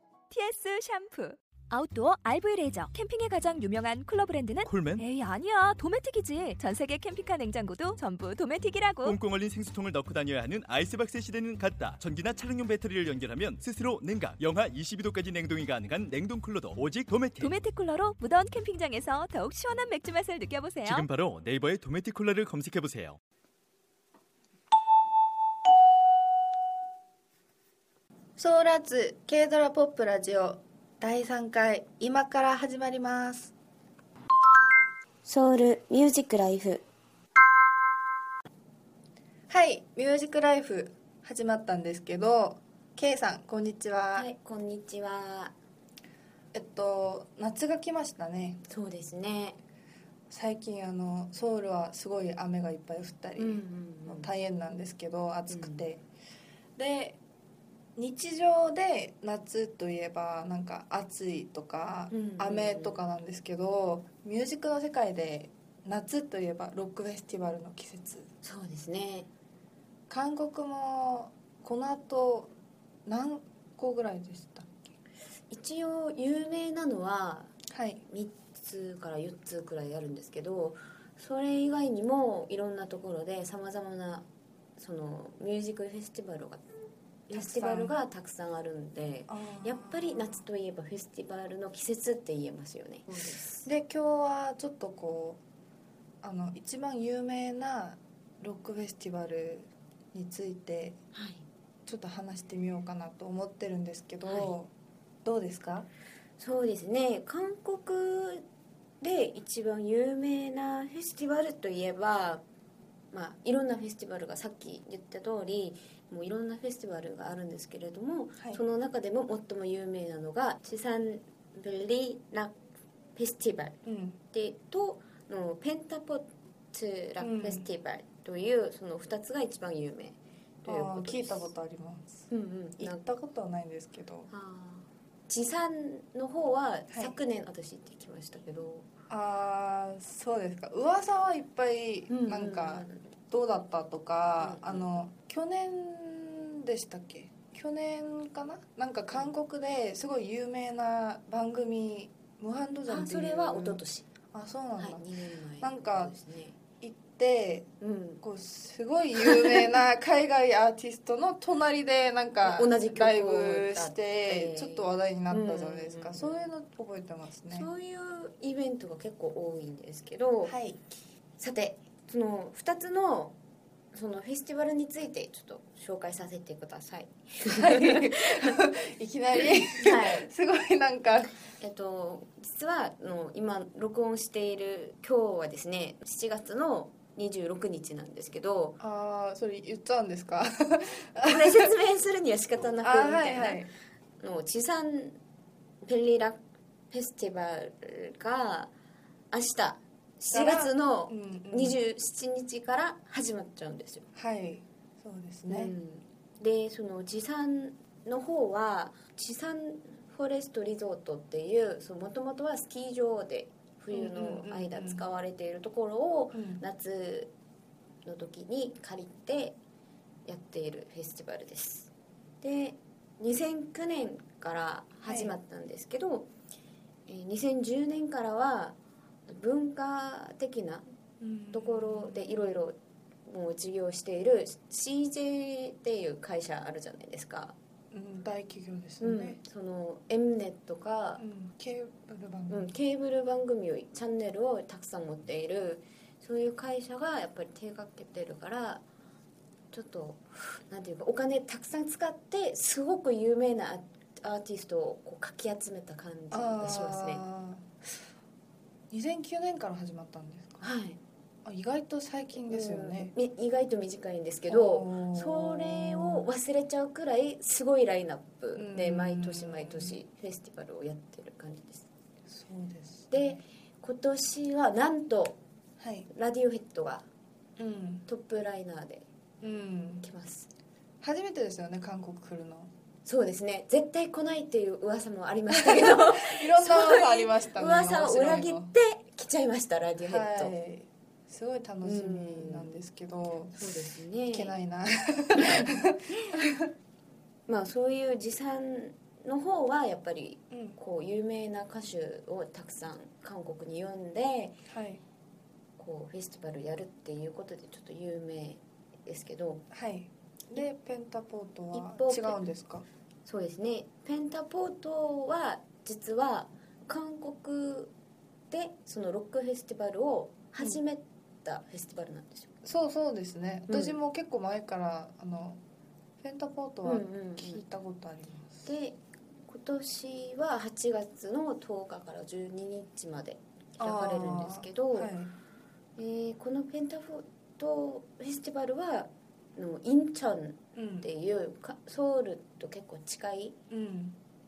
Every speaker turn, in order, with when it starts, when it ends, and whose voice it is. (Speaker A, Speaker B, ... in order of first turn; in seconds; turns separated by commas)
Speaker A: 0.3-9.2, Speaker B: 4.6-5.0, Speaker B: 9.0-17.6, Speaker A: 17.4-21.1, Speaker B: 20.8-23.2, Speaker C: 28.4-33.5, Speaker D: 35.2-36.9, Speaker C: 39.5-44.3, Speaker D: 44.1-45.5, Speaker C: 46.5-48.6, Speaker D: 48.7-49.6, Speaker C: 50.3-56.0, Speaker D: 53.4-54.3, Speaker D: 55.5-55.9, Speaker C: 56.8-57.2, Speaker C: 58.0-68.3, Speaker D: 62.1-63.0, Speaker D: 68.4-69.3, Speaker C: 70.1-72.5, Speaker C: 73.1-74.9, Speaker D: 75.5-77.5, Speaker C: 77.7-78.0, Speaker D: 78.1-84.3, Speaker D: 84.8-86.6, Speaker D: 87.3-93.7, Speaker C: 87.3-87.9, Speaker C: 89.3-90.4, Speaker C: 93.6-95.4, Speaker C: 96.2-101.0, Speaker D: 101.1-101.5, Speaker C: 101.9-104.7, Speaker D: 104.2-104.5, Speaker C: 105.2-105.9, Speaker D: 106.4-108.5, Speaker D: 109.0-112.4, Speaker D: 113.1-122.5, Speaker D: 123.2-123.8, Speaker C: 123.8-124.2, Speaker D: 124.3-131.5, Speaker C: 127.2-127.7, Speaker C: 130.7-132.1, Speaker D: 132.2-133.1, Speaker C: 132.8-134.3, Speaker D: 134.3-138.9, Speaker C: 139.1-153.8, Speaker D: 142.1-143.1, Speaker D: 144.4-144.9, Speaker D: 152.9-154.1, Speaker C: 154.3-156.2, Speaker D: 154.8-156.6, Speaker C: 156.8-157.7, Speaker D: 157.8-158.2, Speaker C: 158.2-167.7, Speaker D: 159.2-159.6, Speaker D: 162.4-166.4, Speaker D: 167.5-170.5, Speaker C: 170.5-170.8, Speaker D: 171.4-173.4, Speaker D: 173.9-178.6, Speaker C: 177.5-181.3, Speaker D: 179.4-180.3, Speaker D: 181.6-188.8, Speaker C: 188.8-191.7, Speaker D: 191.2-193.7, Speaker C: 192.8-193.7, Speaker D: 194.2-195.2, Speaker D: 195.8-196.4, Speaker D: 196.9-198.7, Speaker D: 199.3-204.1, Speaker C: 200.3-201.8, Speaker C: 204.2-205.8, Speaker D: 205.5-217.3, Speaker C: 213.9-215.1, Speaker C: 216.3-216.6, Speaker D: 218.1-219.6, Speaker D: 220.3-221.9, Speaker D: 222.4-226.3, Speaker C: 225.0-225.3, Speaker D: 227.1-228.8, Speaker D: 229.3-230.9, Speaker C: 231.2-232.6, Speaker D: 231.5-237.6, Speaker C: 237.9-239.4, Speaker D: 239.0-241.2, Speaker C: 241.2-242.7, Speaker D: 242.5-248.8, Speaker D: 249.7-257.3, Speaker C: 256.3-257.7, Speaker C: 258.9-260.7, Speaker D: 260.6-261.0, Speaker C: 261.4-263.1, Speaker D: 262.4-271.9, Speaker C: 264.5-266.3, Speaker C: 268.6-270.0, Speaker C: 272.3-273.4, Speaker D: 273.1-275.4, Speaker C: 275.8-276.1, Speaker D: 276.1-277.1, Speaker C: 277.6-278.1, Speaker D: 278.1-279.1, Speaker C: 279.4-280.1, Speaker D: 280.0-280.5, Speaker C: 281.0-282.7, Speaker D: 283.1-290.5, Speaker C: 285.5-288.7, Speaker C: 290.0-293.7, Speaker D: 291.8-292.7, Speaker D: 293.6-294.6, Speaker C: 294.3-296.7, Speaker D: 295.4-295.7, Speaker D: 297.5-304.6, Speaker C: 300.5-300.8, Speaker C: 304.7-305.0, Speaker D: 305.8-309.6, Speaker C: 309.7-312.9, Speaker D: 311.7-312.4, Speaker D: 313.2-317.9, Speaker D: 318.5-322.5, Speaker C: 322.6-325.6, Speaker D: 323.7-323.9, Speaker C: 326.2-328.7, Speaker D: 326.9-327.6, Speaker D: 328.6-335.1, Speaker C: 333.8-335.3, Speaker D: 336.0-343.6, Speaker C: 340.8-341.1, Speaker C: 343.7-344.2